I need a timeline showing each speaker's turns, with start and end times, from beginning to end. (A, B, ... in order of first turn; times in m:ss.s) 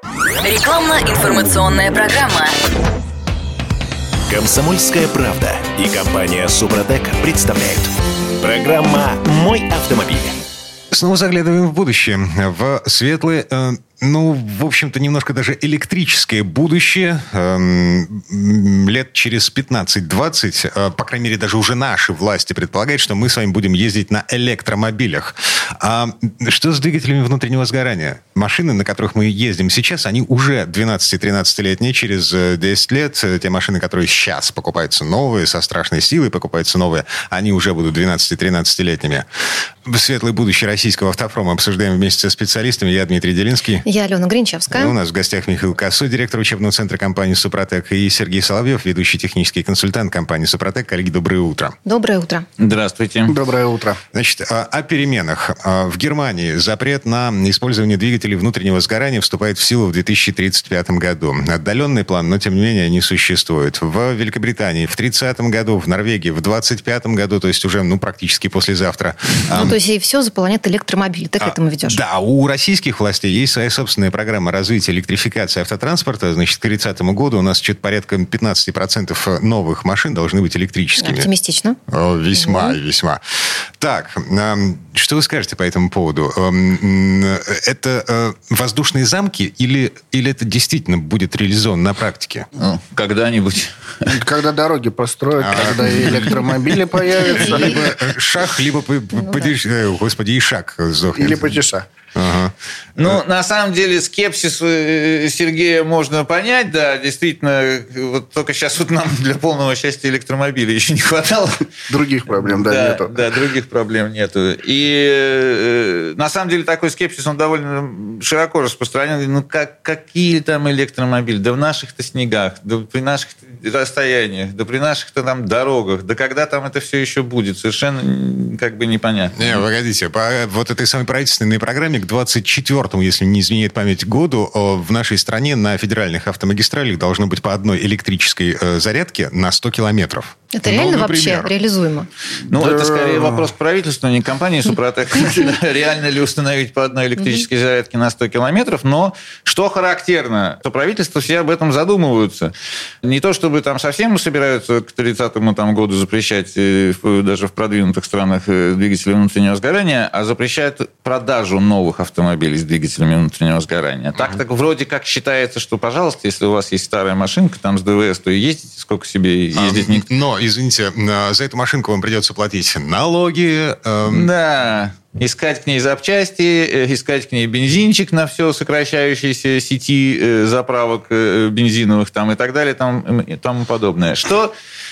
0:00.4-0:02.5 A
0:04.3-0:10.4 B
0:10.9-0:39.3 C
0:39.8-0:43.8 C
0:43.8-0:44.9 D
0:44.7-0:51.8 C
0:51.8-0:52.5 D
0:52.6-0:53.4 E
0:53.3-0:54.0 F
0:54.1-1:09.8 C
1:09.5-1:12.0 D
1:11.4-1:21.3 C
1:21.0-1:21.8 D
1:21.9-1:32.5 C
1:22.4-1:22.8 D
1:32.6-1:34.1 E
1:34.1-1:37.9 F
1:35.4-1:41.5 C
1:37.3-1:37.8 D
1:39.2-1:39.5 D
1:41.2-1:41.9 F
1:42.1-1:43.2 C
1:43.0-1:51.7 E
1:51.9-1:53.2 F
1:52.3-2:09.6 E
2:09.4-2:21.5 C
2:20.5-2:22.1 D
2:22.4-2:50.1 E
2:22.6-2:23.4 F
2:49.6-2:54.3 C
2:54.1-3:04.5 E